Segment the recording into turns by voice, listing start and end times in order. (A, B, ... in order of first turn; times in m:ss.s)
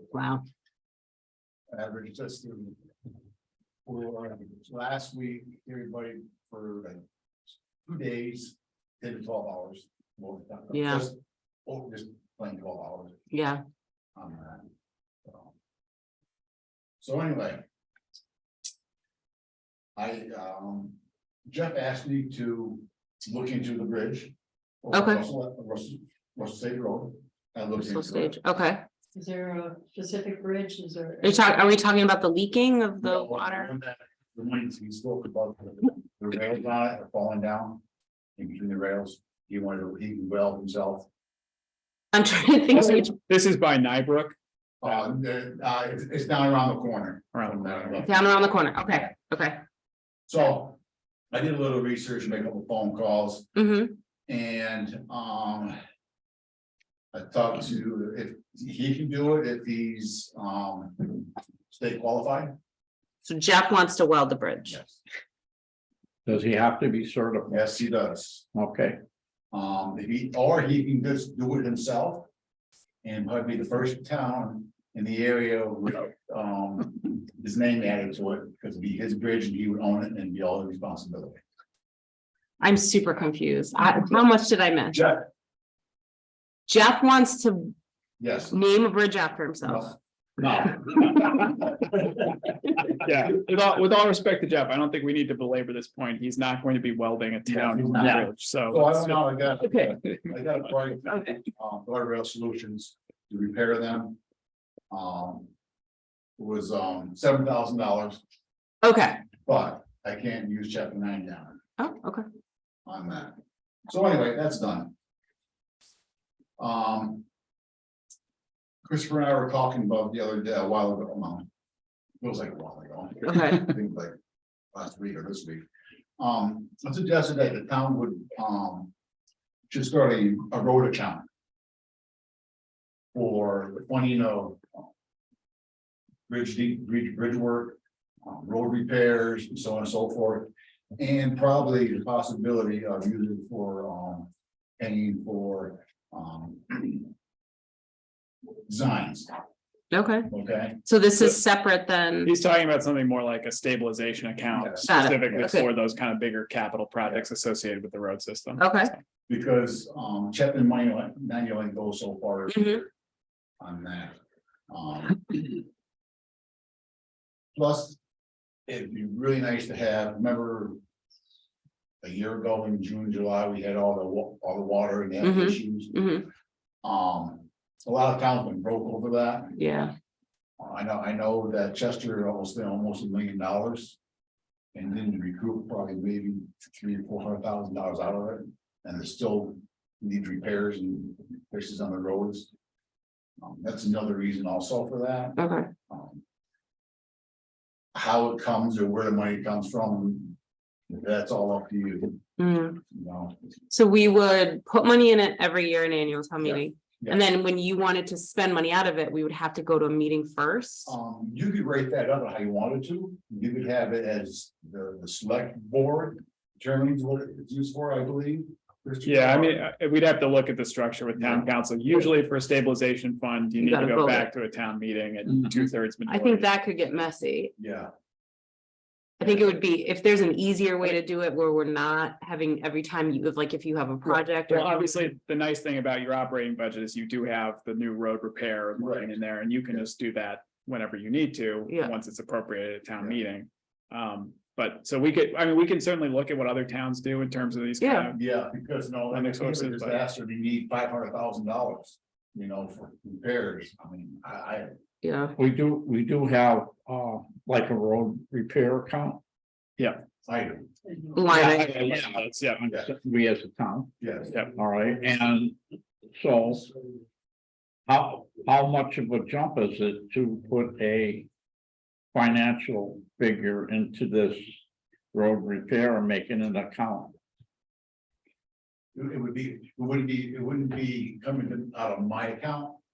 0:00.1-0:00.4 A
0:01.7-0:02.8 B
0:03.8-0:07.0 B
0:07.8-0:13.2 B
0:10.7-0:11.0 A
0:13.3-0:13.6 A
0:14.2-0:14.7 B
0:15.2-0:15.5 B
0:17.0-0:17.6 B
0:20.0-0:21.0 B
0:21.5-0:28.4 B
0:24.9-0:25.2 A
0:27.8-0:28.8 A
0:29.1-0:31.7 C
0:31.2-0:33.7 A
0:33.0-0:37.8 B
0:38.4-0:41.1 B
0:42.1-0:43.1 A
0:42.7-0:44.3 D
0:44.8-0:49.1 B
0:47.3-0:48.0 D
0:48.0-0:49.6 A
0:50.3-0:50.8 B
0:51.3-0:53.5 B
0:53.5-0:54.0 A
0:54.3-0:55.8 B
0:57.1-1:02.5 B
1:03.2-1:04.8 A
1:04.6-1:05.0 B
1:06.2-1:07.7 E
1:07.5-1:08.4 B
1:08.5-1:09.0 E
1:09.5-1:12.3 B
1:13.0-1:21.4 B
1:22.6-1:25.0 A
1:24.9-1:25.2 B
1:26.7-1:27.7 A
1:28.2-1:28.5 B
1:28.5-1:29.9 A
1:29.6-1:32.8 B
1:32.9-1:39.4 D
1:37.5-1:44.2 B
1:38.0-1:38.2 E
1:39.6-1:39.9 A
1:44.9-1:45.5 B
1:46.4-1:48.2 B
1:48.8-1:49.2 A
1:49.4-1:51.6 B
1:51.8-1:52.2 A
1:52.8-1:53.4 B
1:53.9-1:54.9 B
1:56.6-1:57.2 B
1:58.8-2:01.5 B
2:02.2-2:04.1 B
2:03.2-2:03.7 A
2:04.7-2:05.6 B
2:06.2-2:08.9 B
2:09.7-2:11.2 B
2:13.1-2:14.8 B
2:16.3-2:27.1 B
2:28.6-2:29.3 B
2:29.9-2:30.3 A
2:30.3-2:30.8 B
2:30.8-2:32.3 A
2:32.2-2:38.9 D
2:34.5-2:35.6 B
2:34.9-2:35.7 A
2:38.6-2:38.9 A
2:39.3-2:42.9 B
2:42.5-2:42.8 A
2:43.6-2:44.2 B
2:44.7-2:45.6 B
2:47.5-2:48.0 B
2:48.7-2:50.8 B
2:52.0-2:56.0 B
2:55.2-2:56.2 A
2:56.8-2:59.6 B
2:59.5-2:59.9 A
3:00.6-3:04.0 B
3:04.7-3:12.5 B
3:13.4-3:16.2 B
3:15.4-3:15.7 A
3:17.9-3:20.4 B
3:20.9-3:22.2 B
3:22.4-3:22.8 A
3:22.8-3:23.3 B
3:23.7-3:30.9 A
3:26.4-3:27.2 B
3:30.8-3:39.6 B
3:39.0-3:46.5 D
3:41.2-3:42.1 B
3:43.6-3:44.3 A
3:46.1-3:47.5 A
3:47.6-3:47.9 B
3:49.2-3:55.0 A
3:49.2-3:49.6 B
3:54.5-4:08.2 D
3:58.8-3:59.1 B
4:01.7-4:01.9 A
4:07.8-4:08.1 A
4:08.1-4:14.7 B
4:09.1-4:10.0 D
4:15.0-4:15.3 A
4:15.4-4:19.2 E
4:19.8-4:20.0 D
4:20.2-4:20.7 B
4:21.1-4:21.7 A
4:21.3-4:22.6 D
4:21.3-4:25.6 E
4:24.0-4:24.4 B
4:24.3-4:24.5 D
4:26.1-4:26.7 E
4:27.9-4:31.3 E
4:32.1-4:34.6 E
4:35.1-4:37.2 E
4:38.9-4:42.8 B